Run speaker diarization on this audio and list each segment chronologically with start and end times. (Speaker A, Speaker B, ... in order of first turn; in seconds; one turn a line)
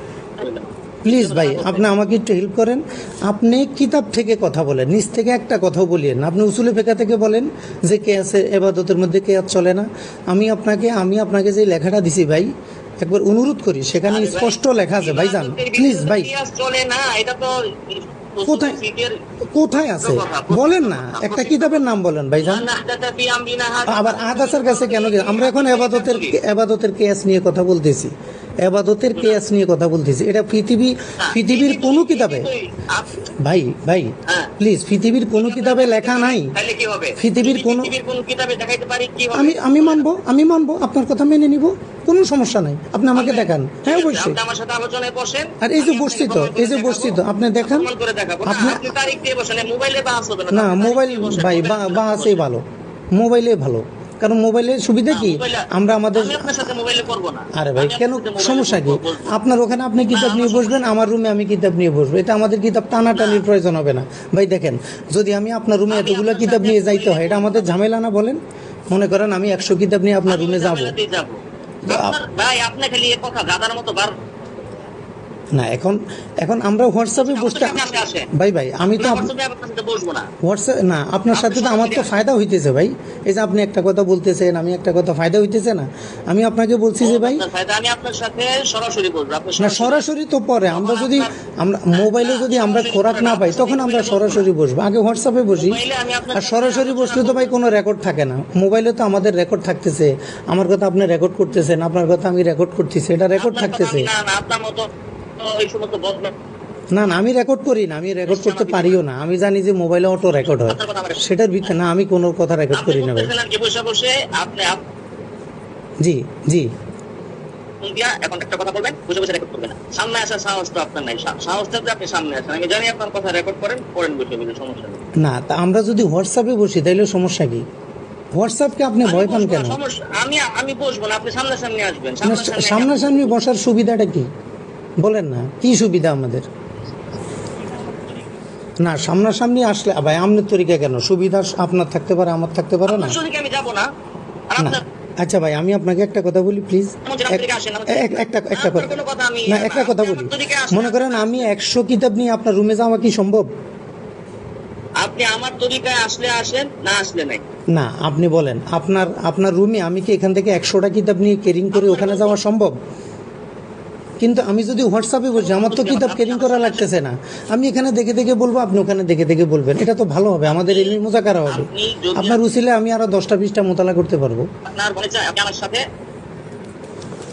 Speaker A: 0.4-1.9
Speaker B: 1.0-16.3
Speaker A: 14.1-21.8
Speaker B: 18.4-18.8
Speaker B: 19.5-22.7
Speaker A: 22.4-26.4
Speaker B: 23.9-32.5
Speaker A: 31.2-33.2
Speaker B: 33.4-36.5
Speaker A: 34.3-34.5
Speaker A: 35.3-40.1
Speaker B: 37.2-37.9
Speaker B: 39.3-44.4
Speaker A: 43.1-52.4
Speaker B: 45.6-47.9
Speaker B: 48.4-49.0
Speaker B: 50.5-56.7
Speaker A: 55.1-59.4
Speaker B: 57.5-68.4
Speaker A: 60.0-60.8
Speaker A: 63.1-63.4
Speaker A: 65.9-67.8
Speaker B: 68.9-70.9
Speaker A: 70.2-74.2
Speaker B: 71.9-72.1
Speaker B: 75.5-79.3
Speaker A: 77.2-78.3
Speaker A: 78.9-80.3
Speaker B: 80.4-87.4
Speaker A: 81.3-82.1
Speaker A: 87.0-90.0
Speaker B: 89.6-95.8
Speaker A: 90.7-91.3
Speaker A: 91.9-94.5
Speaker A: 95.5-97.6
Speaker B: 96.3-104.1
Speaker A: 103.4-104.9
Speaker A: 105.4-106.3
Speaker B: 106.9-113.3
Speaker A: 108.2-109.0
Speaker A: 110.5-111.2
Speaker A: 112.7-114.8
Speaker B: 116.0-116.7
Speaker A: 117.8-125.0
Speaker B: 125.2-127.6
Speaker B: 128.3-129.8
Speaker A: 129.0-133.3
Speaker B: 132.2-134.3
Speaker B: 135.0-136.4
Speaker B: 138.8-143.2
Speaker A: 142.9-143.9
Speaker A: 144.5-144.8
Speaker B: 144.6-153.5
Speaker A: 147.0-151.5
Speaker A: 155.0-157.4
Speaker B: 157.7-162.7
Speaker A: 161.7-162.4
Speaker B: 164.2-174.5
Speaker A: 165.3-166.9
Speaker A: 170.4-172.4
Speaker A: 174.6-175.8